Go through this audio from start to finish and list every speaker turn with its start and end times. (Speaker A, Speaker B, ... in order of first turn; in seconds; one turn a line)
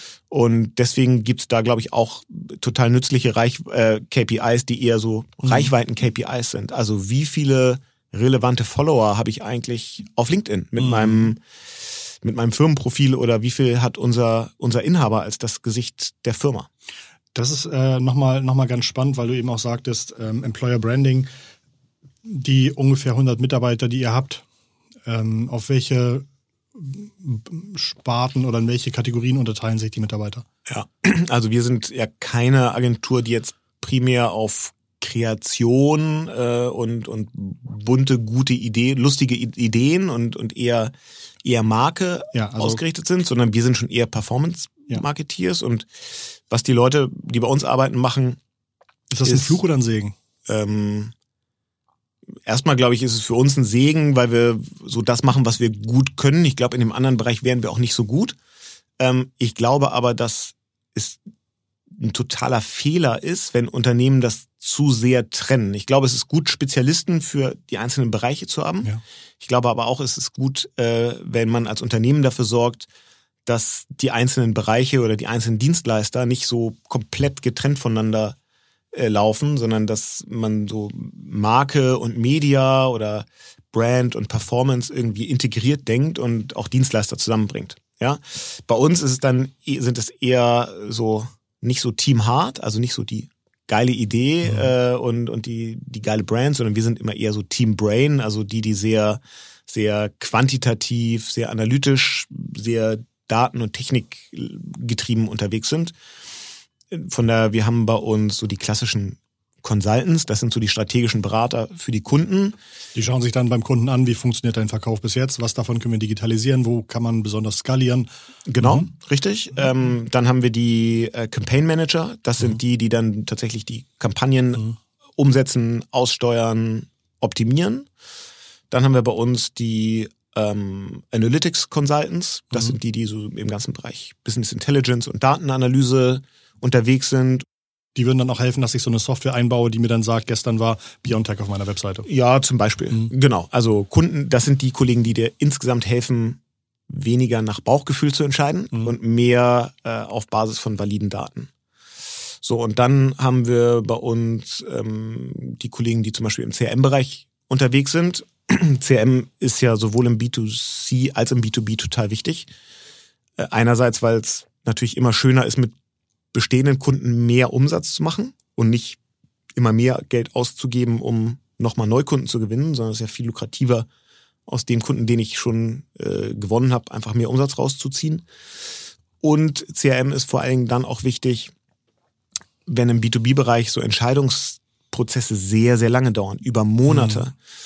Speaker A: 0.3-11.4
Speaker B: 5.4-5.7
Speaker B: 10.8-11.1
Speaker A: 12.2-16.7
Speaker B: 17.3-21.3
Speaker B: 22.2-24.4
Speaker B: 25.1-30.4
Speaker A: 30.7-40.9
Speaker A: 41.4-45.9
Speaker B: 42.3-42.8
Speaker A: 46.5-48.4
Speaker B: 49.1-50.1
Speaker A: 49.2-49.6
Speaker A: 50.5-51.1
Speaker A: 52.5-58.4
Speaker A: 59.0-61.2
Speaker A: 62.0-72.9
Speaker A: 73.5-78.4
Speaker A: 78.9-105.9
Speaker A: 106.9-112.6
Speaker B: 113.0-118.1
Speaker A: 118.5-127.9
Speaker B: 118.6-118.9
Speaker A: 128.7-137.4
Speaker B: 137.9-142.1
Speaker A: 142.1-151.5
Speaker A: 152.4-162.5
Speaker A: 163.4-165.7
Speaker A: 166.3-169.0
Speaker A: 169.6-173.9
Speaker A: 174.5-178.3
Speaker A: 179.2-181.5
Speaker A: 182.7-187.3
Speaker B: 186.9-187.2